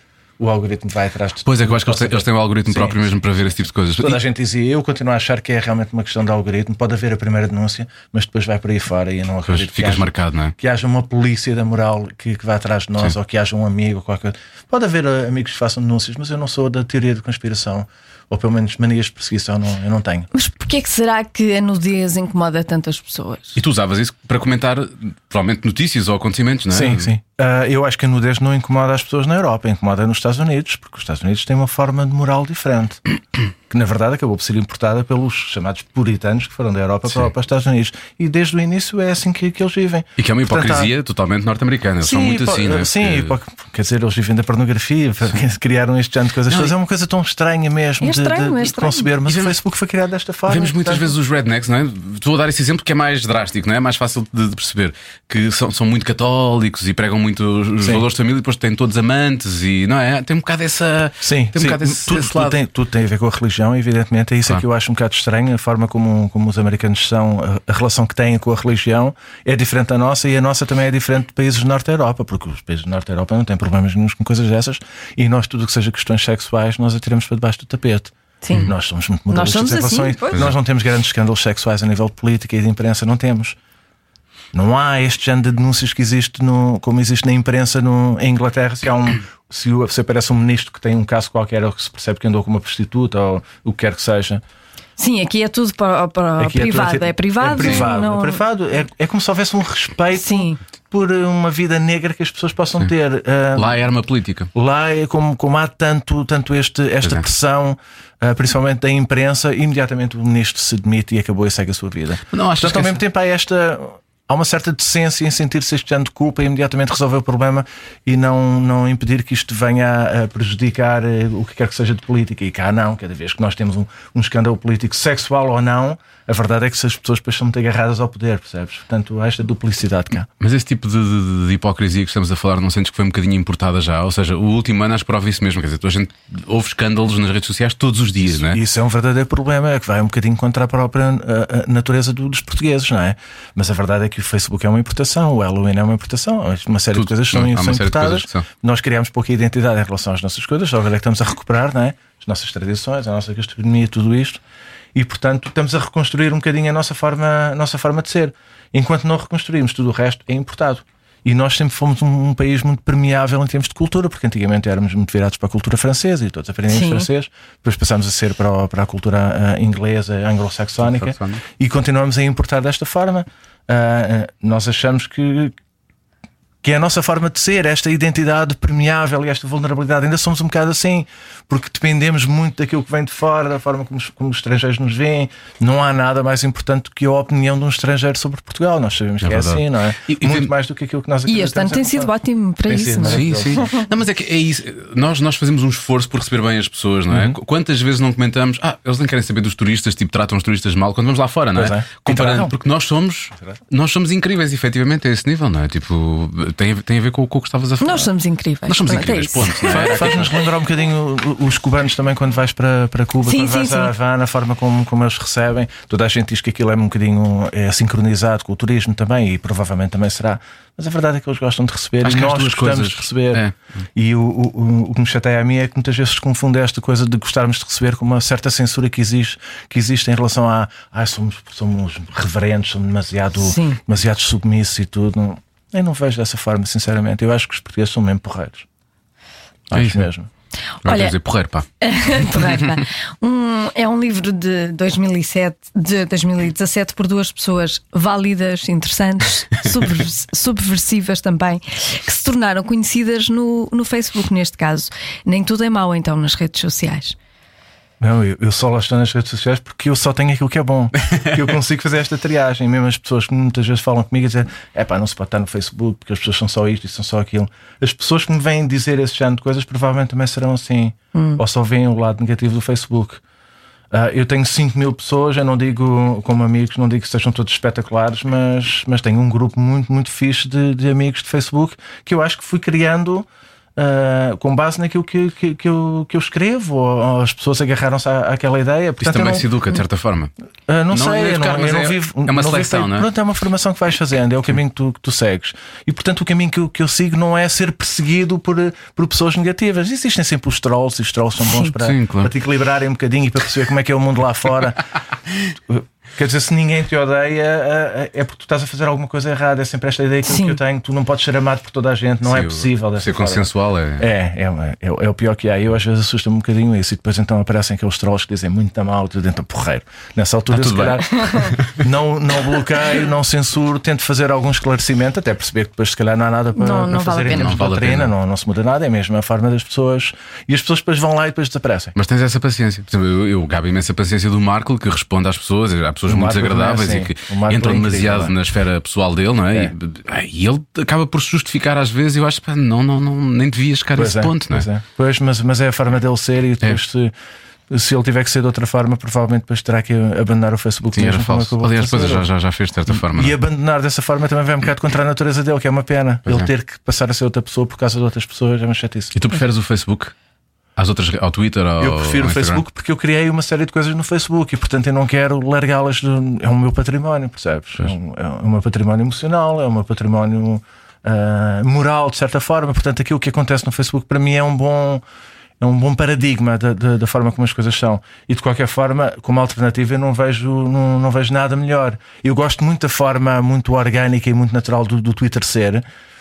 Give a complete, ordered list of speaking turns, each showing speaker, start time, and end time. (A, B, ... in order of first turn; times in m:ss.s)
0:00.4-0:03.2 A
0:01.4-0:04.2 B
0:04.0-0:20.3 A
0:09.5-0:10.5 B
0:20.3-0:23.6 C
0:23.6-0:27.1 B
0:26.7-0:33.0 A
0:33.7-0:40.9 A
0:40.2-0:43.4 B
0:42.0-0:51.1 A
0:48.0-0:49.1 C
0:49.3-0:49.6 B
0:50.5-1:02.6 B
1:01.2-1:23.6 A
1:18.4-1:18.7 C
1:19.3-1:20.4 C
1:24.5-1:34.4 A
1:35.0-1:38.4 C
1:36.4-1:43.8 A
1:37.6-1:37.9 B
1:40.1-1:40.6 C
1:43.6-1:44.5 B
1:44.5-2:10.3 A
1:52.3-1:53.0 B
2:10.4-2:18.6 B
2:18.2-2:34.4 A
2:26.9-2:28.4 B
2:35.0-2:55.6 A
2:46.7-2:47.1 C
2:50.9-2:51.4 B
2:56.6-3:12.1 A
3:09.2-3:10.5 B
3:11.3-3:13.7 C
3:12.7-3:13.6 A
3:13.0-3:28.1 B
3:17.1-3:17.4 A
3:21.5-3:22.5 A
3:27.8-3:29.9 C
3:28.7-3:30.5 B
3:29.6-3:43.4 A
3:33.2-3:33.9 C
3:42.0-3:43.6 B
3:44.0-3:58.7 A
3:53.4-3:53.8 C
3:59.7-4:00.3 A
3:59.7-4:00.1 B
4:00.8-4:01.2 C
4:00.8-4:01.7 B
4:01.8-4:17.2 C
4:18.0-4:33.2 A
4:31.1-4:31.4 C
4:33.9-4:49.5 A
4:49.0-4:50.3 B
4:50.7-5:04.8 A
4:50.9-4:53.1 B
5:01.8-5:02.3 B
5:05.7-5:32.0 A
5:10.3-5:10.6 C
5:12.3-5:14.1 B
5:20.5-5:21.8 B
5:26.6-5:27.6 C
5:27.3-5:28.1 B
5:32.0-5:44.7 B
5:36.1-5:38.4 A
5:44.0-5:47.1 A
5:47.7-5:52.2 A
5:51.0-5:53.4 B
5:53.0-5:59.1 A
5:56.3-5:56.5 B
5:59.2-6:00.1 B
6:00.8-6:02.6 B
6:01.8-6:15.0 A
6:15.6-6:25.8 A